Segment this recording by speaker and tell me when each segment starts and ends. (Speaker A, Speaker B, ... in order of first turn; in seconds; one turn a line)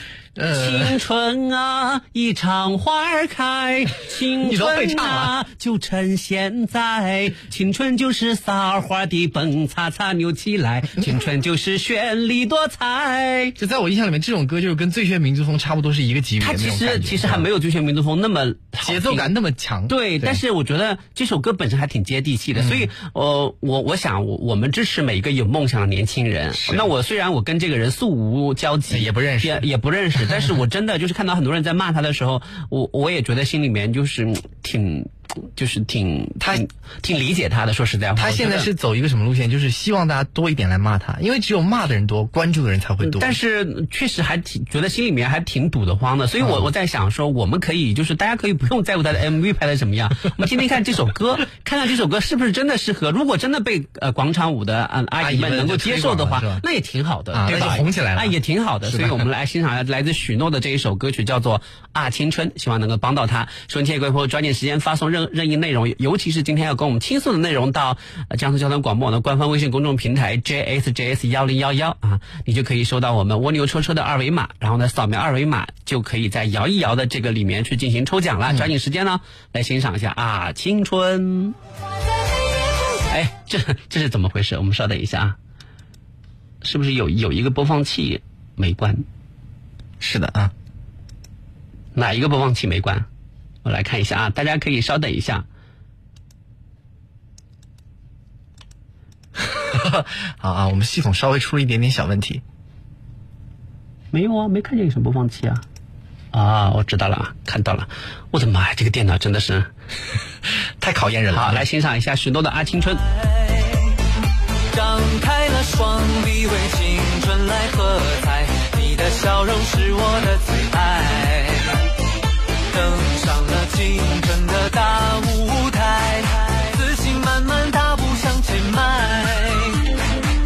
Speaker A: 0.4-1.0
Speaker B: 0.5-13.6
Speaker A: 4.4-5.3
Speaker A: 13.6-17.5
Speaker B: 16.4-19.3
Speaker A: 18.8-20.4
Speaker B: 19.9-38.7
Speaker A: 22.6-22.9
Speaker A: 26.5-26.9
Speaker A: 28.9-29.7
Speaker A: 30.2-30.5
Speaker A: 38.2-43.4
Speaker B: 43.0-81.5
Speaker A: 46.4-46.7
Speaker A: 55.2-56.6
Speaker A: 57.3-59.3
Speaker B: 83.1-85.4
Speaker B: 86.6-89.0
Speaker A: 90.0-90.5
Speaker B: 92.0-93.1
Speaker B: 93.6-95.5
Speaker A: 99.4-102.4
Speaker B: 104.1-105.6
Speaker B: 106.3-109.7
Speaker A: 110.8-111.7
Speaker B: 111.3-113.0
Speaker C: 113.1-113.9
Speaker C: 114.7-121.8
Speaker C: 122.7-129.9